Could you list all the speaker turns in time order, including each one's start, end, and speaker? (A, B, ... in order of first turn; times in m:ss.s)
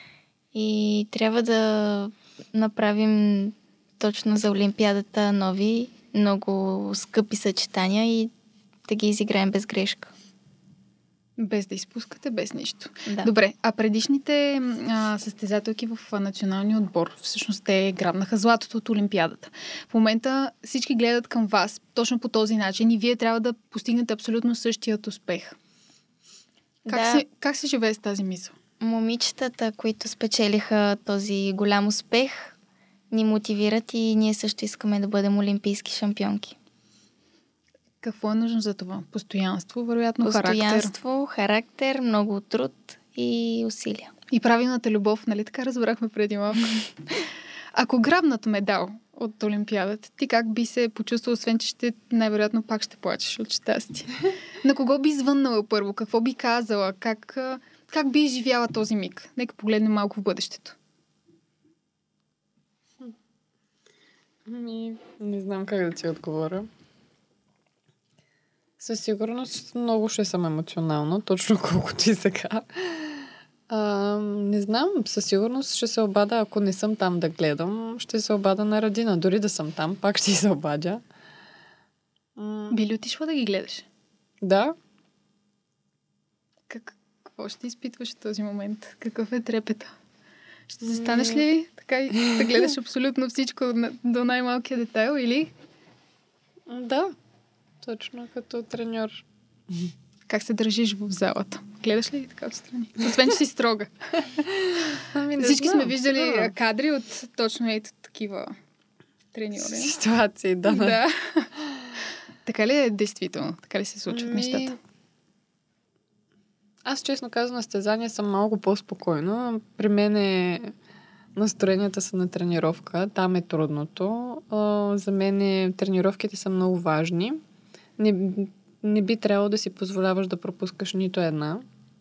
0:00.5-0:08.3 A
0:08.9-0:10.1 A
0:11.4-0:25.6 B
0:26.9-0:28.6 B
0:26.9-0:27.2 A
0:28.8-0:32.6 A
0:33.1-0:36.6 A
0:38.0-0:40.9 B
0:40.2-0:44.1 A
0:44.3-0:46.8 B
0:47.7-1:00.8 B
1:04.5-1:06.7 C
1:08.8-1:21.0 C
1:22.4-1:22.8 C
1:22.7-1:23.9 B
1:24.4-1:24.8 C
1:26.7-1:29.9 B
1:30.7-1:35.5 B
1:30.8-1:31.4 C
1:36.7-1:37.1 C
1:37.8-1:39.9 C
1:40.3-1:43.9 B
1:45.0-1:46.5 C
1:45.4-1:48.5 B
1:49.3-1:49.9 B
1:49.6-1:51.0 C
1:50.7-1:51.5 B
1:52.5-1:54.8 B
1:54.1-1:54.8 C
1:56.8-2:00.7 C
2:01.4-2:07.4 C
2:08.0-2:11.6 C